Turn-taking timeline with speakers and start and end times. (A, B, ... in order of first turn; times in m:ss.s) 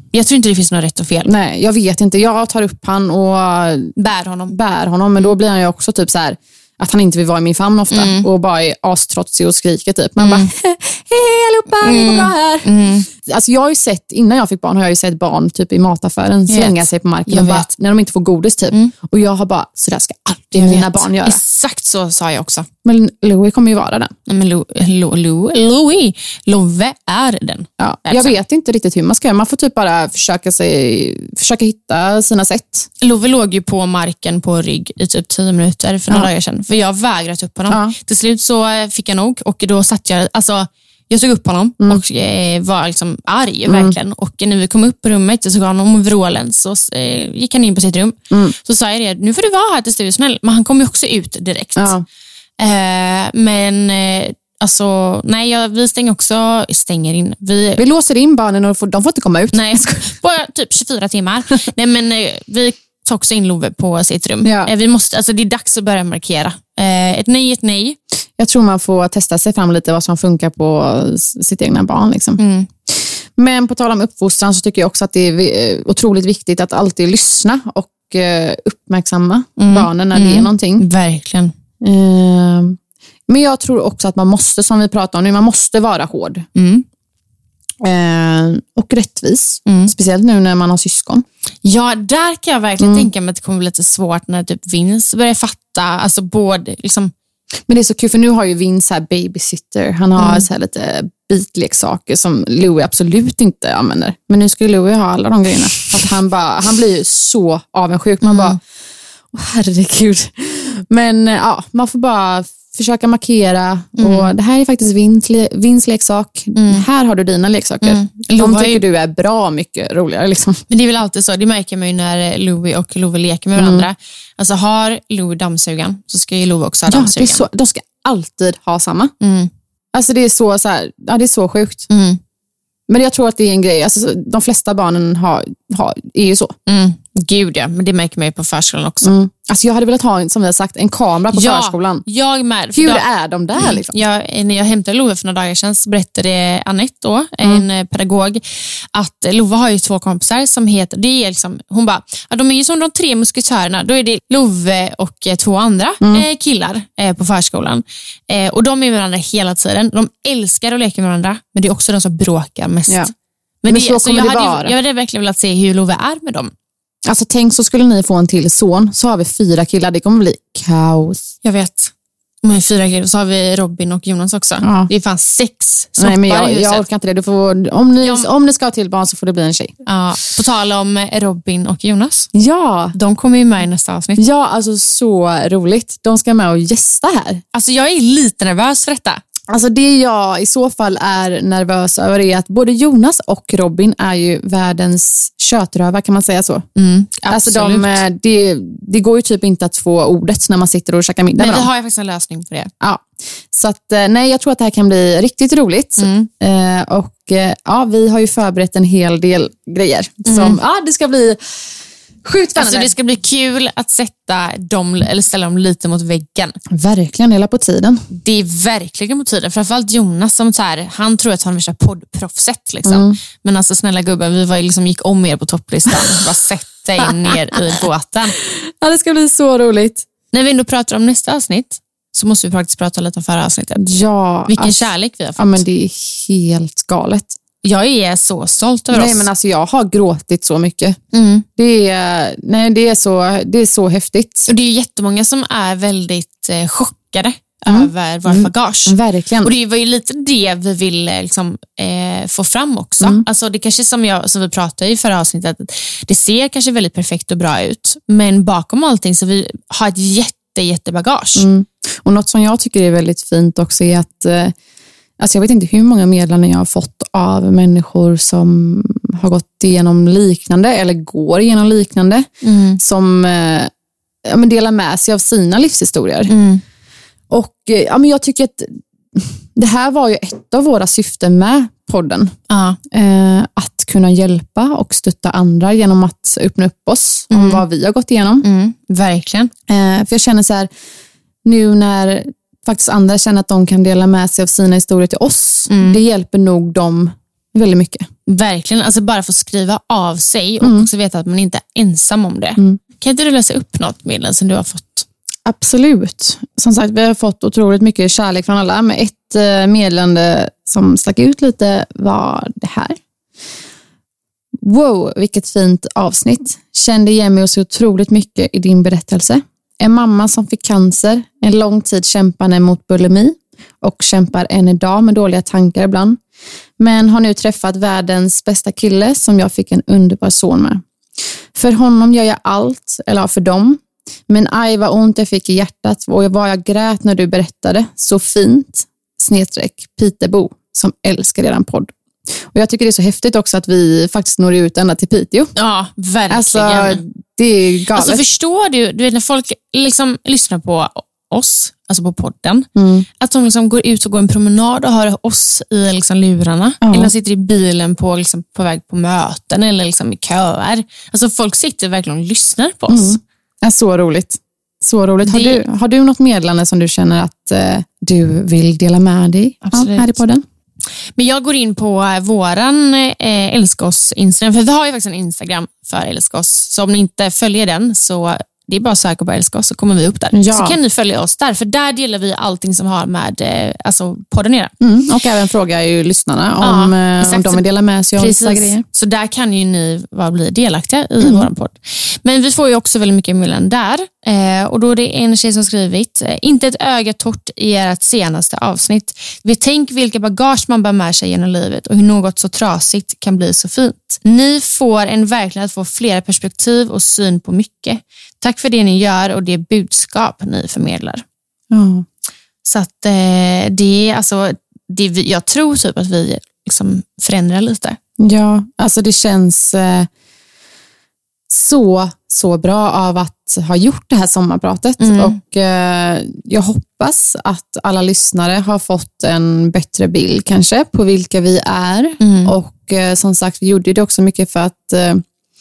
0:00.1-0:01.3 A
0:01.2-0:03.9 B
0:04.0-0:04.5 A
0:04.5-0:21.4 B
0:07.9-0:08.3 A
0:10.2-0:10.5 A
0:11.8-0:13.1 A
0:16.5-0:17.7 A
0:20.6-0:22.7 A
0:22.8-0:24.1 B
0:24.3-0:28.4 A
0:27.8-0:32.9 B
0:33.0-0:51.9 A
0:37.7-0:38.0 B
0:43.7-0:44.0 B
0:48.3-0:48.6 B
0:51.8-0:52.0 B
0:52.6-0:57.8 A
0:57.8-1:00.2 B
0:59.5-1:08.0 A
1:04.4-1:04.7 B
1:08.4-1:20.8 B
1:12.4-1:12.7 A
1:19.6-1:21.5 A
1:21.8-1:26.5 B
1:26.5-1:26.8 A
1:27.8-1:31.2 B
1:29.6-1:29.9 A
1:31.6-1:37.1 A
1:32.8-1:33.1 B
1:37.7-1:48.6 B
1:40.2-1:40.4 A
1:48.2-1:48.6 A
1:49.3-2:00.6 B
1:54.0-1:54.3 A
1:56.5-1:56.8 A
1:57.8-1:58.8 A
2:00.7-2:07.4 A
2:03.6-2:03.9 B
2:06.9-2:09.1 B
2:09.2-2:09.5 A
2:09.9-2:11.9 B
2:11.9-2:12.2 A
2:12.9-2:16.5 B
2:16.7-2:19.1 A
2:19.0-2:22.0 B
2:21.3-2:23.0 A
2:22.7-2:24.0 B
2:23.6-2:28.4 A
2:28.9-2:43.1 A
2:36.0-2:36.3 B
2:43.6-2:46.5 A
2:43.7-2:44.7 B
2:47.0-2:51.3 B
2:51.4-2:51.9 A
2:52.4-2:56.8 A
2:54.6-2:54.9 B
2:56.0-2:59.7 B
2:58.0-2:58.3 A
2:59.8-3:02.3 A
3:02.3-3:02.9 B
3:02.9-3:04.2 A
3:04.2-3:07.4 B
3:07.5-3:09.2 A
3:09.5-3:16.6 B
3:16.8-3:18.0 A
3:17.3-3:21.7 B
3:21.4-3:22.7 A
3:22.8-3:31.4 B
3:26.0-3:26.3 A
3:30.2-3:30.6 A
3:32.2-3:32.9 B
3:32.6-3:36.6 A
3:36.7-3:38.0 B
3:38.1-3:48.4 A
3:42.8-3:43.2 B
3:48.6-3:50.0 B
3:50.3-3:53.8 A
3:53.8-3:57.4 B
3:54.5-3:55.6 A
3:57.6-3:59.3 A
3:58.9-4:01.0 B
4:01.1-4:01.4 A
4:01.6-4:04.5 B
4:04.5-4:21.5 A
4:07.6-4:09.5 B
4:21.4-4:24.5 B
4:25.2-4:32.3 B
4:32.4-4:32.8 A
4:32.8-4:33.7 B
4:34.2-4:36.3 B
4:36.3-4:36.6 A
4:37.3-4:42.3 B
4:42.5-4:42.8 A
4:42.9-4:48.4 B
4:47.3-4:47.6 A
4:48.4-4:49.5 A
4:49.7-4:50.7 B
4:51.4-4:58.1 B
4:55.7-4:56.0 A
4:58.3-5:05.0 A
5:00.6-5:00.9 B
5:05.4-5:13.0 B
5:14.6-5:26.2 B
5:26.8-5:30.8 B
5:31.5-5:41.9 B
5:42.5-5:45.5 B
5:45.6-5:47.0 A
5:46.3-5:48.2 B
5:47.9-5:52.7 A
5:52.8-5:53.0 B
5:53.2-6:03.2 A
5:56.8-5:57.1 B
6:02.9-6:10.4 B
6:05.2-6:05.6 A
6:09.6-6:10.2 A
6:11.2-6:24.7 A
6:20.3-6:20.8 B
6:24.8-6:28.8 B
6:26.6-6:27.6 A
6:28.2-6:51.2 A
6:31.2-6:31.5 B
6:51.7-6:52.0 B
6:52.6-6:58.0 A
6:58.2-7:00.1 B
7:01.5-7:15.2 B
7:05.0-7:05.4 A
7:12.2-7:12.5 A